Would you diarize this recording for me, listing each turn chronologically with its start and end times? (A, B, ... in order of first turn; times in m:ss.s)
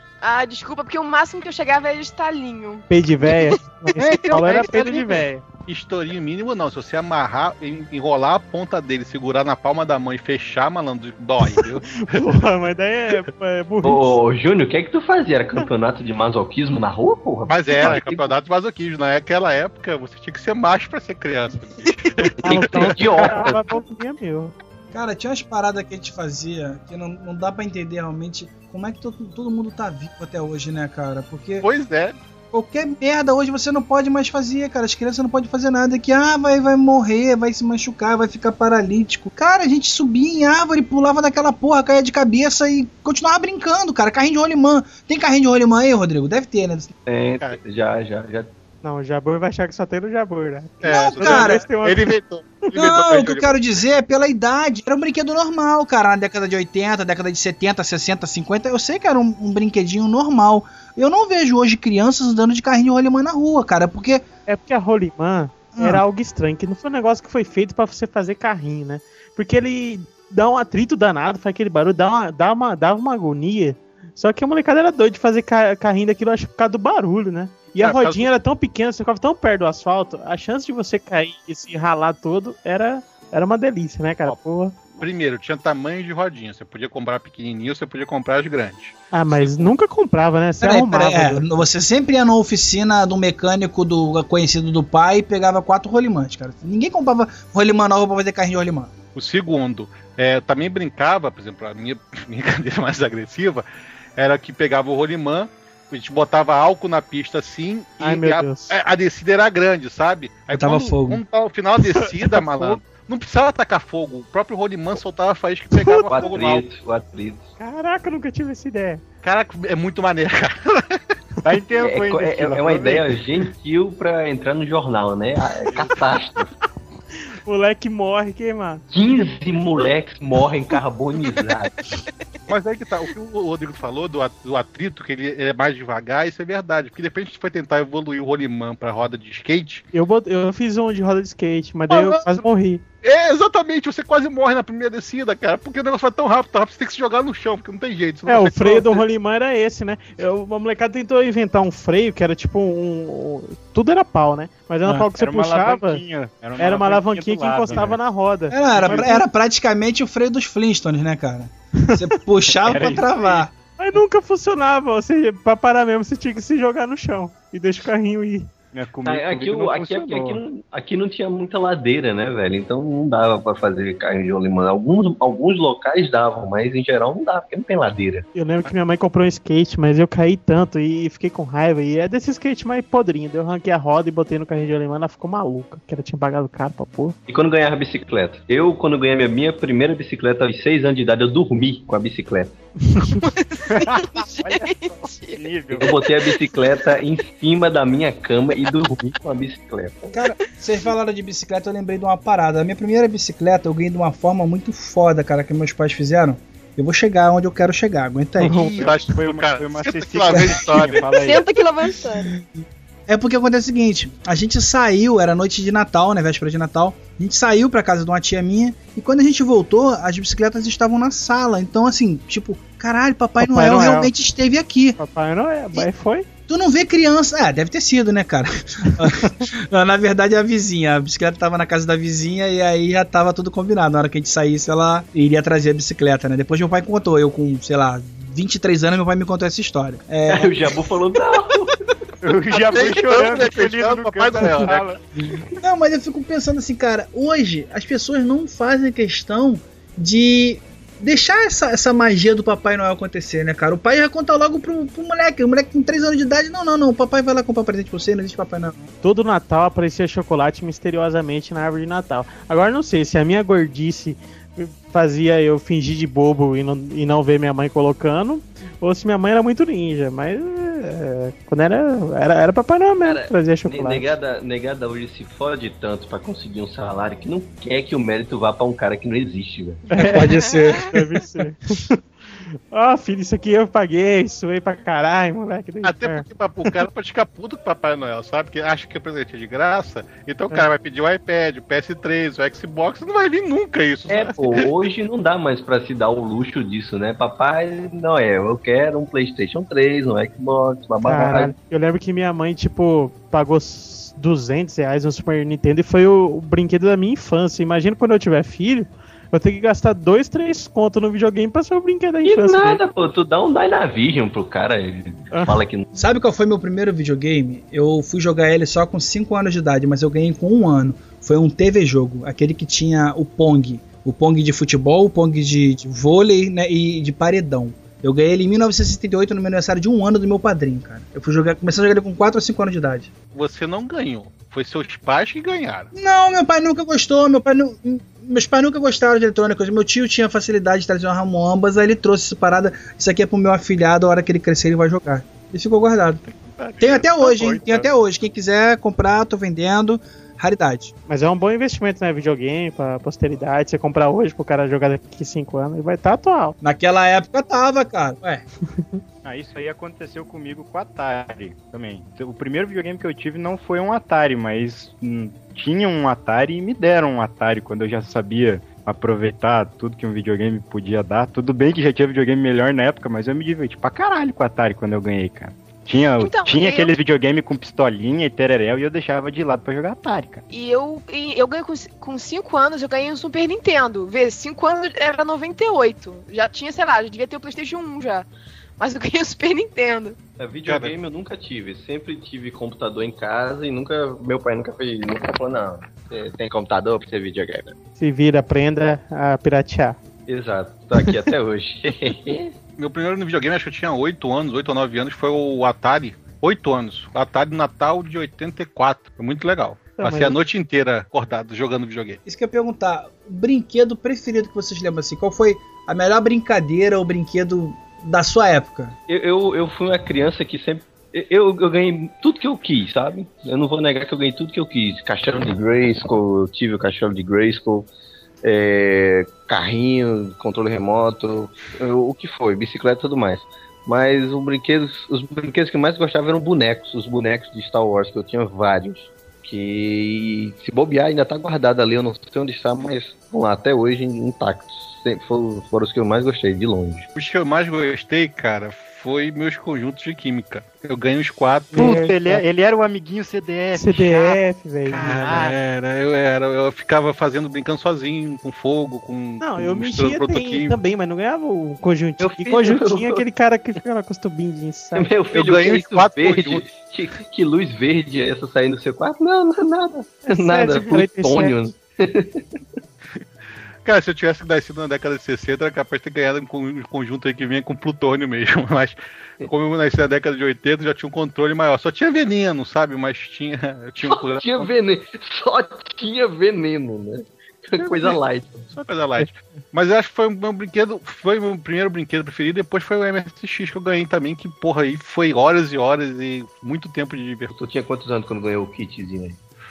0:00.2-0:03.6 A
0:02.9-0:05.5 B
0:04.0-0:05.2 C
0:05.7-0:12.4 D
0:11.9-0:14.2 B
0:13.8-0:18.3 E
0:17.5-0:23.6 D
0:22.4-0:24.5 B
0:22.5-0:23.4 E
0:24.9-0:31.7 F
0:31.6-0:32.2 D
0:32.5-0:46.9 F
0:47.1-0:48.5 E
0:48.8-0:52.1 B
0:50.8-0:53.6 D
0:50.9-0:51.7 F
0:52.8-1:04.2 F
1:04.5-1:25.0 B
1:05.7-1:06.0 F
1:17.8-1:18.3 D
1:25.0-1:29.7 D
1:29.1-1:31.6 B
1:30.6-1:38.9 F
1:39.2-1:56.6 D
1:48.0-1:48.8 B
1:50.5-1:51.2 F
1:51.9-1:52.8 B
1:55.7-1:56.4 B
1:56.1-1:57.5 E
1:57.6-1:59.0 B
1:59.2-2:01.0 D
2:01.4-2:03.2 C
2:01.8-2:06.5 E
2:07.4-2:08.8 B
2:08.9-2:11.7 E
2:12.5-2:19.8 D
2:19.9-2:22.8 B
2:21.9-2:22.4 D
2:23.0-2:29.0 D
2:28.3-2:36.0 B
2:35.2-2:38.0 C
2:36.6-2:39.2 B
2:38.5-2:43.5 F
2:38.8-2:39.1 C
2:41.8-2:42.1 B
2:42.5-2:43.5 C
2:43.8-2:48.5 B
2:48.7-2:50.4 C
2:49.0-2:58.3 E
2:58.4-3:07.2 B
3:07.3-3:12.6 E
3:12.9-3:13.2 B
3:13.2-3:16.2 A
3:13.7-3:16.0 C
3:15.8-3:20.1 E
3:20.1-3:28.6 F
3:28.4-3:31.5 C
3:28.6-3:31.2 D
3:30.3-3:30.6 F
3:31.1-3:32.3 A
3:32.3-3:45.0 F
3:43.4-3:44.1 B
3:45.0-3:46.3 B
3:46.5-4:00.7 F
4:00.3-4:01.8 E
4:02.2-4:05.0 C
4:02.5-4:05.0 D
4:05.6-4:18.8 F
4:19.0-4:34.1 B
4:33.0-4:39.8 E
4:39.9-4:42.0 B
4:40.0-4:40.9 A
4:40.1-4:41.0 F
4:42.6-4:46.8 B
4:45.8-4:54.7 D
4:54.1-5:01.5 E
5:01.0-5:12.8 B
5:12.2-5:15.8 E
5:15.3-5:15.6 B
5:15.9-5:33.1 F
5:33.3-5:35.9 D
5:35.9-5:46.2 F
5:46.2-5:47.9 D
5:46.8-5:50.9 F
5:51.1-5:56.6 B
5:56.6-5:58.4 F
5:59.2-6:20.4 C
6:16.2-6:16.9 A
6:20.5-6:28.3 A
6:28.8-6:30.2 A
6:30.4-6:37.8 E
6:30.6-6:31.0 D
6:38.0-6:40.0 B
6:40.3-6:42.5 E
6:42.8-6:52.2 D
6:50.0-6:50.4 B
6:52.2-6:59.0 F
6:59.1-7:07.9 E
7:08.4-7:27.1 E
7:27.2-7:32.0 D
7:31.8-7:32.4 B
7:31.8-7:35.6 C
7:33.8-7:35.2 B
7:34.9-7:40.8 D
7:39.4-7:45.1 B
7:42.2-7:43.2 E
7:45.0-7:52.6 E
7:45.3-7:46.7 D
7:50.3-7:51.6 B
7:53.8-8:04.7 D
8:04.0-8:08.7 E
8:08.7-8:17.5 D
8:17.5-8:19.4 E